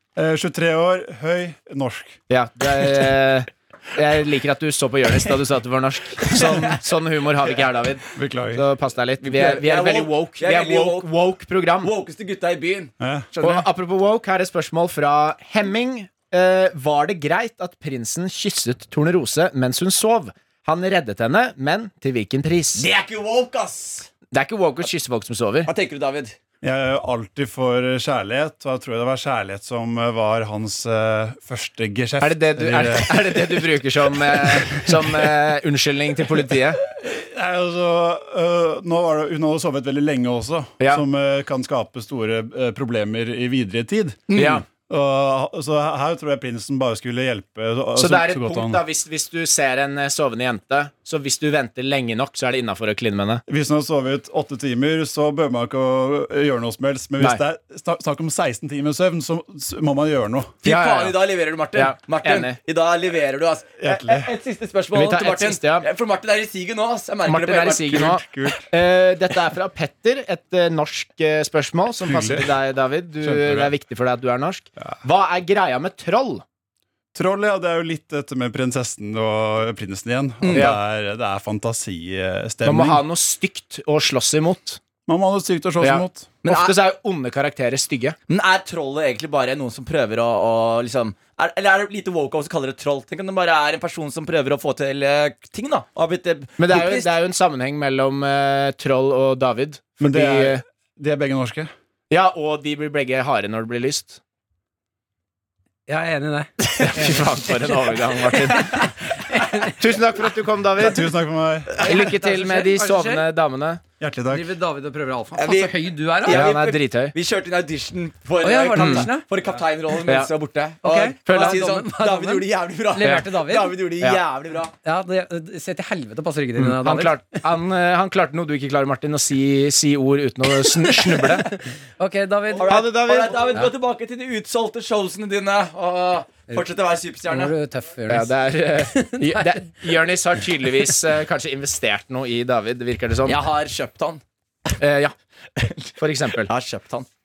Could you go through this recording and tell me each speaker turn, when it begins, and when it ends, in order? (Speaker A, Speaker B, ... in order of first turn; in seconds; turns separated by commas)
Speaker A: 0.2-2.2, Speaker B: 2.3-11.9, Speaker C: 6.3-6.8, Speaker A: 8.2-8.7, Speaker C: 9.2-11.1, Speaker C: 11.8-13.6, Speaker A: 13.0-13.3, Speaker B: 13.4-22.9, Speaker C: 22.8-24.1, Speaker B: 24.3-25.7, Speaker C: 25.7-26.4, Speaker A: 26.6-33.7, Speaker B: 32.2-36.8, Speaker A: 34.3-35.0, Speaker A: 36.9-48.8, Speaker C: 44.3-44.6, Speaker B: 44.4-44.6, Speaker B: 48.0-53.4, Speaker A: 53.5-60.6, Speaker C: 60.6-68.1, Speaker B: 60.6-61.2, Speaker B: 61.7-62.6, Speaker A: 63.8-64.3, Speaker B: 64.9-65.9, Speaker B: 67.3-76.4, Speaker A: 67.9-68.7, Speaker A: 72.1-72.5, Speaker A: 73.2-73.7, Speaker A: 77.1-83.0, Speaker C: 80.4-80.7, Speaker B: 80.5-80.8, Speaker B: 82.6-84.8, Speaker A: 85.1-86.3, Speaker B: 85.8-88.2, Speaker C: 86.4-86.8, Speaker C: 88.3-97.1, Speaker B: 96.6-100.6, Speaker A: 100.0-101.7, Speaker B: 102.1-104.2, Speaker D: 105.9-109.8, Speaker B: 106.9-108.9, Speaker B: 109.7-111.1, Speaker A: 110.8-111.8, Speaker D: 111.8-113.3, Speaker B: 111.8-113.8, Speaker A: 114.0-114.5, Speaker D: 114.3-116.5, Speaker C: 115.3-124.7, Speaker B: 116.3-117.1, Speaker D: 118.4-119.2, Speaker B: 118.7-119.1, Speaker B: 120.1-120.3, Speaker D: 120.8-123.8, Speaker B: 121.3-121.7, Speaker D: 124.8-127.2, Speaker B: 126.6-131.5, Speaker D: 131.2-132.8, Speaker C: 132.6-137.5, Speaker B: 132.7-133.7, Speaker D: 137.3-138.3, Speaker B: 138.1-143.4, Speaker D: 138.9-139.6, Speaker C: 143.2-144.7, Speaker B: 144.8-145.2, Speaker C: 145.6-147.1, Speaker B: 146.0-146.5